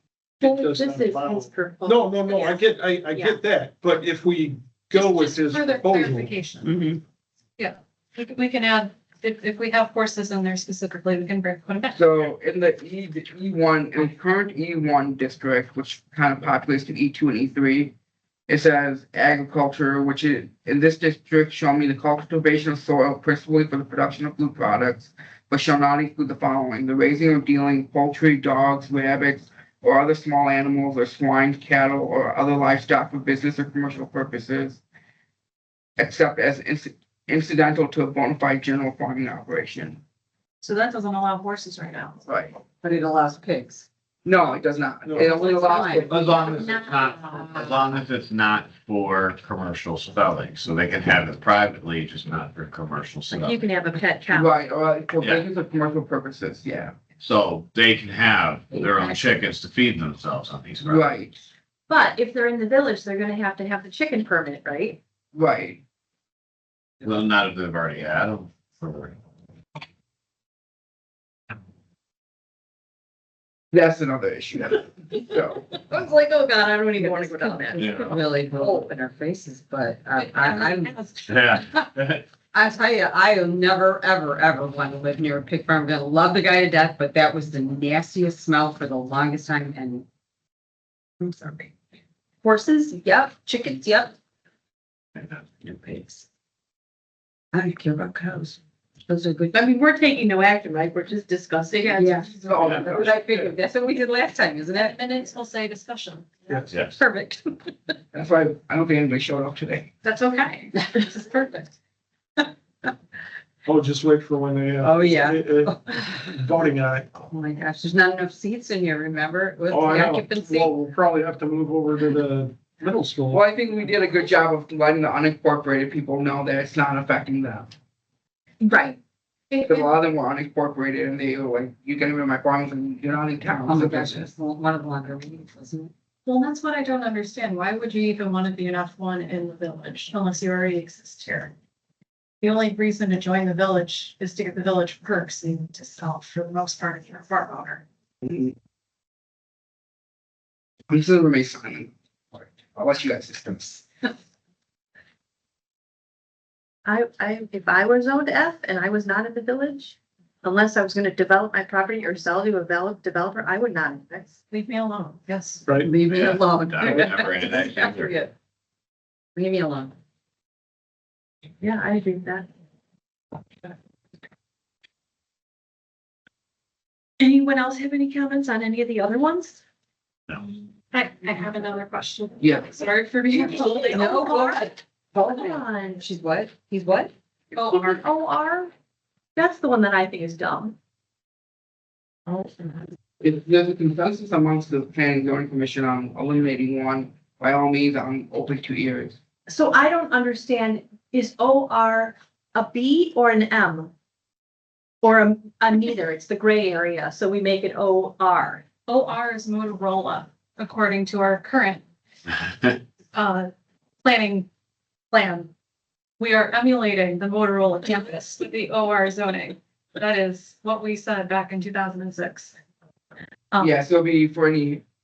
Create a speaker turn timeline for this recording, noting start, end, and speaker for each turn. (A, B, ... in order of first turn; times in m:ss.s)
0:00.4-0:02.6 A
0:00.4-0:06.3 B
0:03.1-0:03.4 A
0:04.9-0:06.7 C
0:06.7-0:07.0 D
0:07.6-0:12.0 C
0:11.9-0:17.9 E
0:18.5-0:34.8 E
0:36.0-0:40.0 E
0:40.6-0:42.2 C
0:42.2-0:42.6 E
0:42.8-0:43.8 D
0:44.2-0:46.6 E
0:45.0-0:45.3 B
0:45.2-0:46.1 D
0:46.0-0:53.6 F
0:53.3-0:54.5 A
0:54.3-0:57.0 E
0:57.2-1:01.0 F
1:00.8-1:01.4 E
1:01.9-1:05.0 A
1:05.3-1:05.8 E
1:07.0-1:09.1 F
1:13.7-1:15.7 E
1:15.8-1:18.0 A
1:17.0-1:20.9 D
1:17.8-1:18.2 F
1:20.3-1:21.1 C
1:21.3-1:22.2 F
1:22.5-1:30.0 D
1:31.2-1:31.7 D
1:32.5-1:32.9 A
1:32.9-1:34.1 D
1:35.2-1:36.2 D
1:37.5-1:39.6 D
1:39.5-1:42.2 A
1:41.8-1:42.4 C
1:42.0-1:45.2 D
1:42.3-1:43.5 E
1:44.7-1:46.7 C
1:46.9-1:48.0 D
1:48.1-1:49.9 E
1:50.0-1:51.7 C
1:50.9-1:51.2 D
1:53.6-1:57.1 B
1:54.8-1:56.3 D
1:57.2-2:00.7 D
1:59.7-2:03.4 B
2:03.3-2:07.7 E
2:08.6-2:09.0 C
2:09.5-2:09.9 C
2:09.6-2:14.3 E
2:13.6-2:15.9 D
2:16.2-2:21.5 C
2:22.4-2:27.8 C
2:28.2-2:28.5 E
2:30.9-2:33.9 E
2:36.8-2:44.4 A
2:44.5-2:45.6 C
2:45.6-2:45.9 B
2:45.8-2:48.3 D
2:46.1-2:48.2 F
2:49.3-2:49.9 D
2:51.6-2:52.5 A
2:57.2-2:59.6 A
3:00.9-3:04.1 C
3:02.4-3:02.8 E
3:03.3-3:07.1 D
3:03.4-3:04.7 A
3:05.2-3:06.0 A
3:07.5-3:08.7 A
3:09.3-3:10.8 A
3:12.3-3:12.8 D
3:13.2-3:19.2 E
3:19.5-3:23.9 A
3:25.0-3:28.6 A
3:28.9-3:31.8 C
3:33.1-3:33.5 C
3:34.0-3:34.5 C
3:35.1-3:35.5 C
3:36.2-3:42.6 C
3:43.6-3:44.8 E